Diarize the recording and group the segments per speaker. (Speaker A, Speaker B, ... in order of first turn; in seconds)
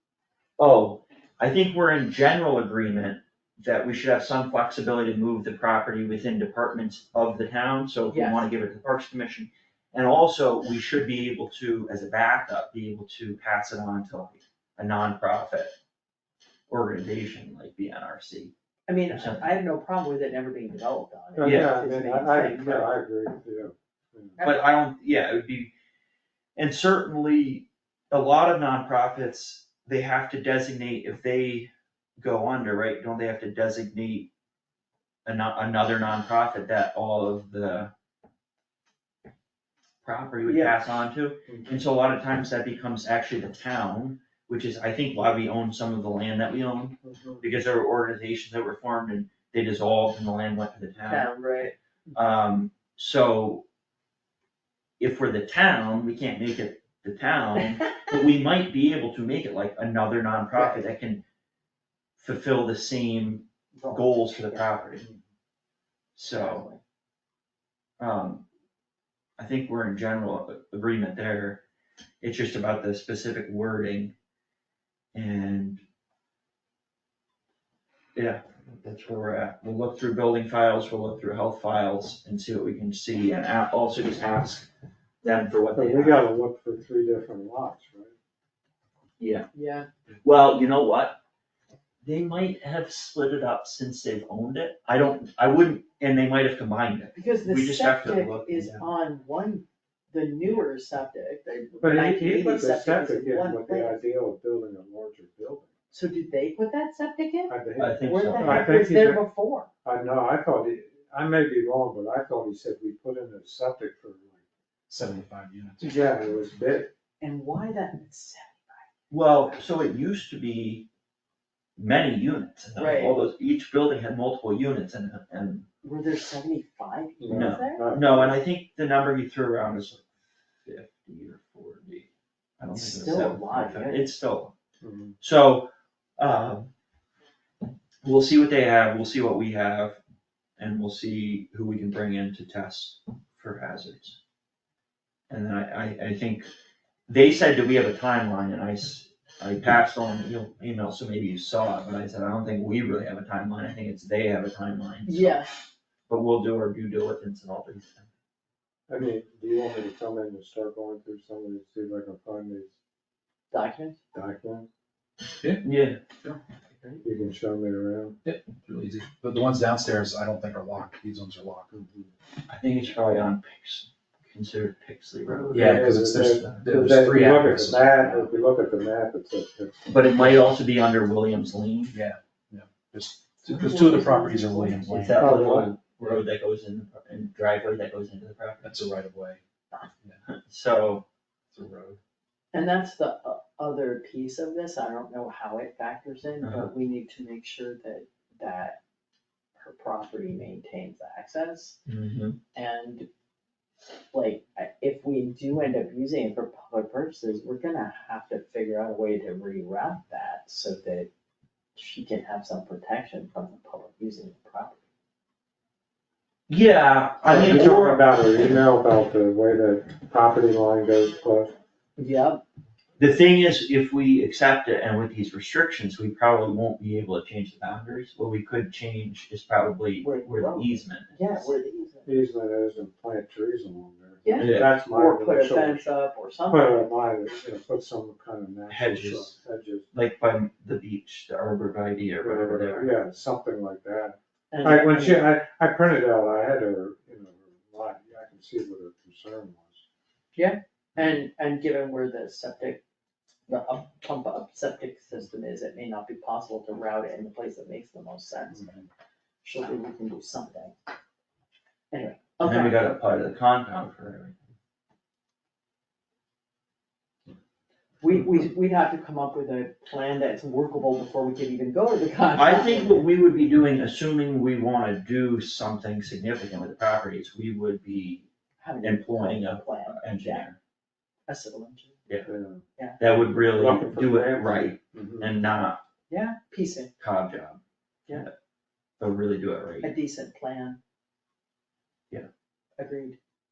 Speaker A: 0.6-15.7, 16.7-18.5, 19.1-19.5, 21.4-21.7, 24.4-25.7, 26.6-34.3, 35.3-37.9, 40.0-51.3, 52.1-53.6, 55.0-61.2, 62.2-65.1, 66.2-66.7, 68.0-68.5, 69.4-71.6, 72.2-74.1, 75.1-75.8, 78.2-84.7, 85.2-86.3, 89.2-89.5, 90.2-91.2, 92.0-98.9, 107.8-108.7, 119.1-120.9, 121.8-125.7, 127.3-130.1, 130.7-132.1, 132.6-134.5, 135.2-136.7, 138.0-140.0, 140.6-144.2, 145.3-146.5, 147.1-155.4, 156.1-158.1, 165.6-166.0, 172.5-177.2, 179.9-182.0, 185.0-188.7, 190.3-191.1, 196.4-196.7, 201.9-202.4, 216.5-218.1, 223.0-231.5, 234.4-234.7, 238.7-239.3, 239.9-242.9, 262.4-264.4, 272.4-278.3, 278.8-280.6, 283.0-285.8, 287.0-287.6, 289.0-289.9
Speaker B: 8.1-8.5, 18.9-22.9, 24.4-24.6, 51.1-51.8, 60.5-60.8, 63.8-64.7, 66.3-66.8, 89.5-89.9, 97.1-104.0, 105.9-109.7, 117.2-118.9, 122.8-123.3, 125.8-127.9, 132.7-134.1, 155.1-155.6, 163.5-164.0, 183.5-185.3, 192.5-198.8, 199.6-201.8, 202.5-203.1, 204.1-211.1, 211.8-214.8, 222.0-222.4, 230.0-232.2, 234.2-236.8, 244.5-245.3, 250.3-252.8, 253.5-258.9, 259.4-260.8, 261.9-262.8, 268.0-273.1, 278.6-280.5, 281.3-282.0, 286.1-286.9, 289.8-290.8, 292.8-293.2
Speaker C: 21.4-24.4, 41.5-41.7, 47.0-47.4, 85.7-88.2, 101.8-105.7, 107.5-109.2, 109.8-114.4, 115.8-116.9, 127.2-128.4, 134.8-135.2, 158.9-162.7, 164.1-164.7, 167.0-168.2, 171.7-172.1, 175.4-180.1, 185.2-185.8, 217.2-221.5, 232.1-235.9, 236.5-239.9, 242.2-249.8, 282.3-282.6, 283.3-285.3
Speaker D: 114.9-116.2, 168.2-171.8, 175.5-178.1, 181.9-186.2, 188.6-189.4, 191.5-192.0